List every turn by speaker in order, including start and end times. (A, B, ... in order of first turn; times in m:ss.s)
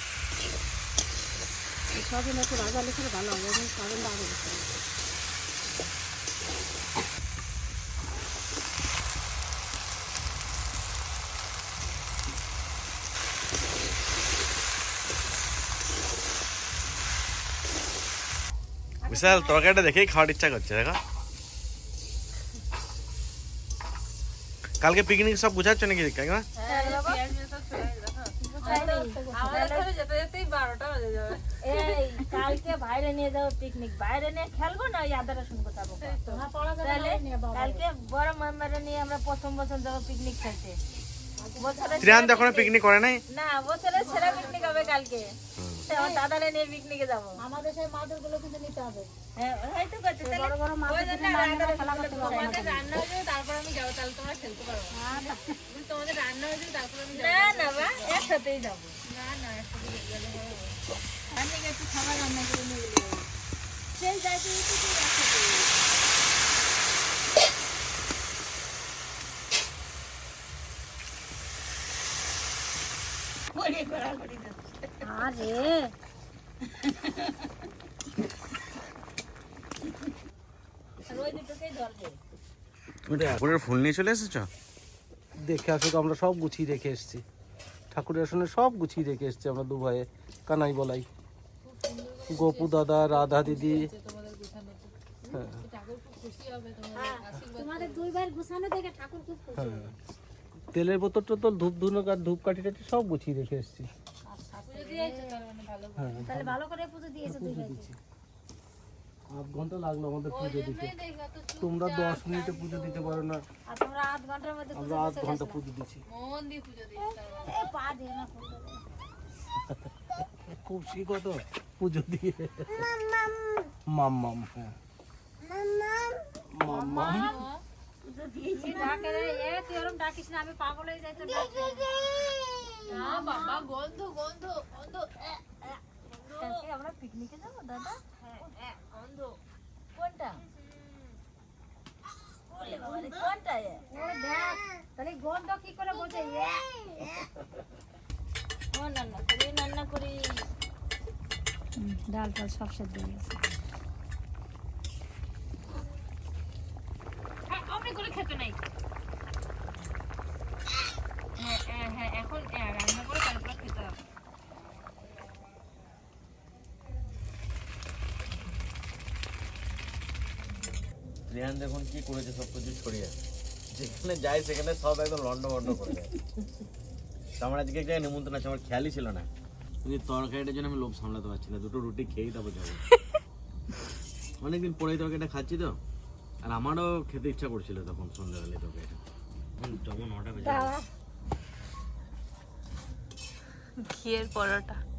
0:01.9-0:04.7 A
0:19.1-0:21.0 B
0:24.8-0:26.4 B
0:26.6-0:32.6 C
0:26.7-0:27.2 D
0:28.4-0:29.9 A
0:29.0-0:29.8 D
0:31.8-0:36.1 D
0:33.4-0:37.1 C
0:36.2-0:37.8 A
0:36.9-0:40.8 D
0:38.3-0:40.2 C
0:41.4-0:42.3 A
0:41.6-0:42.6 D
0:41.8-0:42.7 C
0:42.0-0:43.2 B
0:43.4-0:45.2 C
0:43.7-0:45.2 D
0:44.1-0:44.6 A
0:45.6-0:45.8 B
0:45.9-0:46.2 A
0:46.0-0:47.4 D
0:46.0-0:47.0 C
0:47.4-0:49.1 A
0:49.4-0:50.5 D
0:50.2-0:52.9 A
0:50.9-0:55.0 C
0:51.3-0:52.5 D
0:54.9-0:55.6 A
0:55.7-0:58.4 C
0:57.1-0:59.0 D
0:59.0-1:00.8 C
1:01.5-1:01.9 D
1:03.9-1:05.4 D
1:13.5-1:14.8 E
1:15.0-1:15.9 A
1:17.0-1:17.4 E
1:21.1-1:22.2 D
1:23.1-1:24.5 B
1:23.1-1:23.5 F
1:25.4-1:27.2 F
1:27.9-1:31.0 F
1:31.6-1:34.9 C
1:32.3-1:33.9 F
1:35.3-1:35.6 F
1:35.6-1:38.0 C
1:36.9-1:39.9 A
1:39.6-1:39.9 F
1:40.7-1:43.9 F
1:44.2-1:45.4 A
1:44.7-1:46.2 C
1:46.0-1:46.6 F
1:46.2-1:47.9 A
1:47.2-1:47.9 F
1:49.3-1:50.9 F
1:50.3-1:53.2 C
1:51.6-1:53.4 F
1:53.7-1:55.6 A
1:54.7-1:56.0 F
1:56.1-1:57.6 C
1:57.4-1:58.8 A
2:00.4-2:02.9 F
2:03.9-2:04.8 F
2:06.5-2:07.4 F
2:06.7-2:07.6 C
2:08.0-2:09.3 E
2:08.5-2:12.0 A
2:11.7-2:13.3 E
2:12.9-2:15.1 C
2:13.0-2:13.5 A
2:16.3-2:16.7 C
2:16.4-2:17.2 D
2:16.4-2:16.7 A
2:18.7-2:19.2 D
2:20.0-2:20.4 D
2:22.6-2:23.8 D
2:22.6-2:23.3 E
2:22.7-2:23.3 C
2:23.9-2:26.6 A
2:28.8-2:30.1 D
2:31.8-2:33.6 A
2:37.5-2:38.6 C
2:41.4-2:44.0 C
2:51.3-2:53.1 B
2:53.7-2:56.1 B
2:57.4-2:59.3 B
2:59.8-3:02.8 B
3:04.4-3:05.8 B
3:06.4-3:09.0 B
3:09.6-3:10.7 B
3:10.4-3:10.8 A
3:13.8-3:14.8 C